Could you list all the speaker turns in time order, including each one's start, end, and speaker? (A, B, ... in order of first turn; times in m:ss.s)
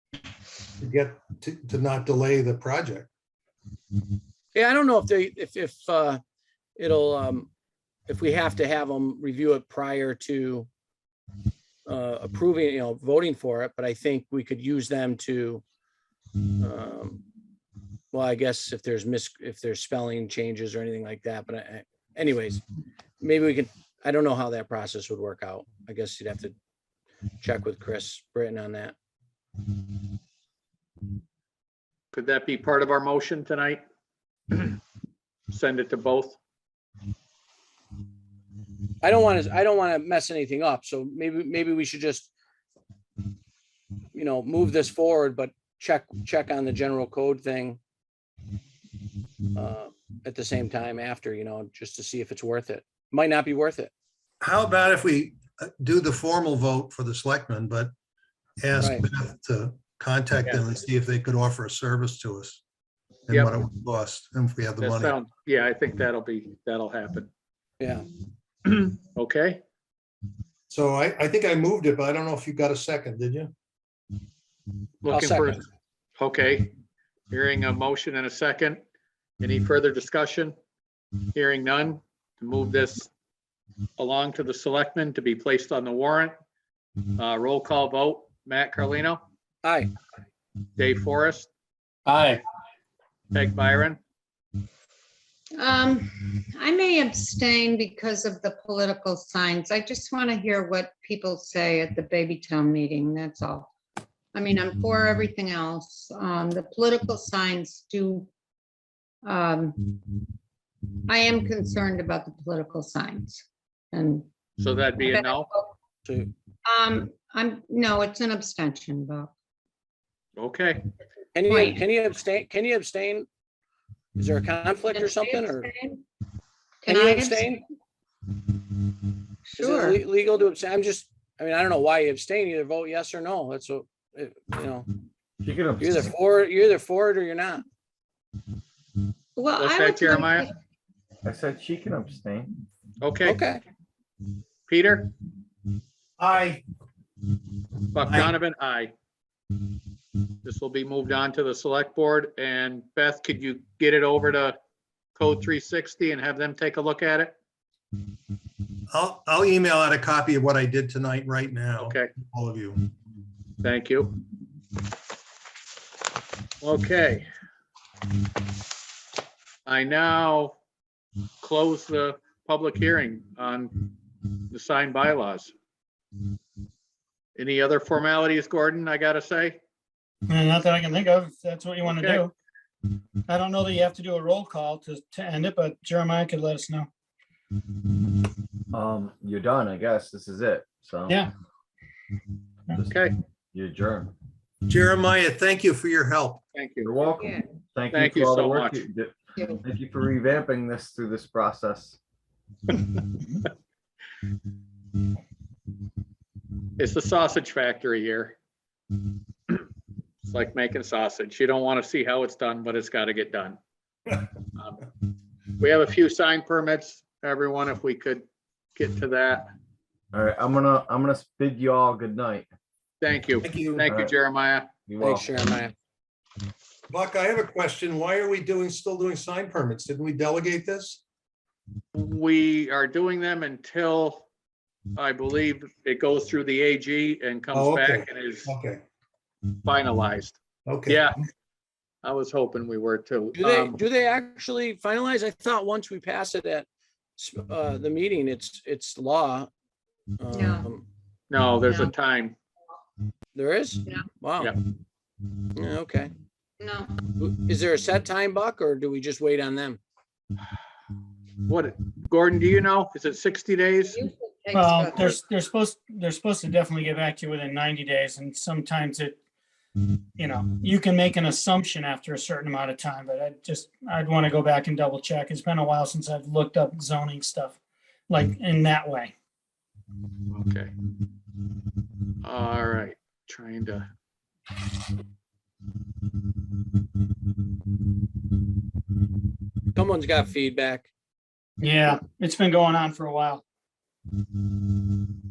0:00.8-0:03.1 A
0:04.5-0:06.2 B
0:06.8-0:07.5 B
0:08.1-0:10.7 B
0:11.9-0:15.6 B
0:16.6-0:17.2 B
0:18.1-0:22.6 B
0:23.2-0:26.6 B
0:27.4-0:29.0 B
0:32.1-0:33.8 C
0:34.5-0:34.8 C
0:35.5-0:36.4 C
0:39.0-0:42.3 B
0:44.1-0:47.8 B
0:49.6-0:53.9 B
0:54.4-0:57.9 A
0:58.6-1:02.6 A
0:58.8-0:59.1 B
1:03.3-1:05.2 A
1:04.8-1:07.3 C
1:07.8-1:08.1 B
1:08.6-1:09.6 C
1:10.7-1:13.5 A
1:15.0-1:15.6 C
1:15.1-1:15.6 B
1:16.2-1:16.8 C
1:17.3-1:18.8 C
1:19.4-1:20.6 C
1:21.3-1:23.1 C
1:24.0-1:26.4 C
1:27.2-1:29.2 C
1:29.6-1:29.9 B
1:30.8-1:31.5 C
1:32.1-1:32.4 C
1:33.3-1:34.0 C
1:35.6-1:43.7 D
1:44.3-1:48.3 D
1:49.2-1:50.0 D
1:51.1-1:54.3 D
1:54.6-1:55.5 C
1:55.0-1:55.7 D
1:56.0-1:56.4 B
1:56.6-1:59.3 D
2:00.4-2:00.9 C
2:01.4-2:03.3 B
2:01.5-2:01.8 D
2:04.2-2:05.7 B
2:04.9-2:06.0 D
2:06.8-2:07.5 D
2:06.9-2:07.7 B
2:09.5-2:10.0 D
2:09.6-2:14.9 B
2:15.4-2:16.1 E
2:15.8-2:17.6 B
2:19.4-2:20.5 D
2:19.6-2:20.4 C
2:21.2-2:22.5 E
2:23.0-2:23.4 C
2:23.2-2:23.6 B
2:24.7-2:25.1 C
2:26.2-2:26.6 A
2:27.9-2:28.9 C
2:30.4-2:34.6 C
2:35.2-2:37.3 C
2:38.9-2:42.8 A
2:41.8-2:42.1 C
2:43.6-2:44.1 C
2:46.6-2:47.3 C
2:49.7-2:50.6 C
2:51.4-2:53.8 C
2:54.5-2:55.5 C
2:57.4-2:59.6 C
3:00.3-3:02.3 F
3:01.8-3:02.2 C
3:03.3-3:06.9 F
3:08.7-3:11.3 E
3:12.8-3:14.1 E
3:12.9-3:13.1 C
3:14.7-3:16.4 A
3:16.5-3:16.9 C
3:16.8-3:22.0 E
3:17.2-3:17.5 D
3:17.9-3:18.8 C
3:19.4-3:19.6 D
3:26.8-3:28.4 C
3:30.3-3:33.6 C
3:35.6-3:39.5 C
3:40.1-3:42.5 E
3:43.0-3:44.7 C
3:43.4-3:43.9 A
3:43.9-3:44.1 E
3:44.9-3:45.3 E
3:45.0-3:45.8 B
3:46.9-3:51.0 A
3:52.0-3:54.3 C
3:55.0-3:58.5 C
3:57.5-3:58.8 A
3:59.6-4:01.2 C
4:00.7-4:01.0 A
4:02.0-4:03.8 C
4:03.4-4:06.7 B
4:07.2-4:09.5 B
4:10.2-4:10.8 B
4:10.3-4:10.7 D
4:11.3-4:12.4 C
4:11.6-4:11.9 D
4:13.4-4:14.5 B
4:15.6-4:16.1 B
4:16.6-4:17.1 D
4:17.2-4:19.8 B
4:21.5-4:24.0 C
4:23.9-4:25.2 D
4:24.5-4:29.2 F
4:30.2-4:37.6 F
4:38.1-4:39.1 F
4:40.3-4:40.7 C
4:42.2-4:43.9 C
4:49.7-4:50.9 B
4:51.6-4:53.4 F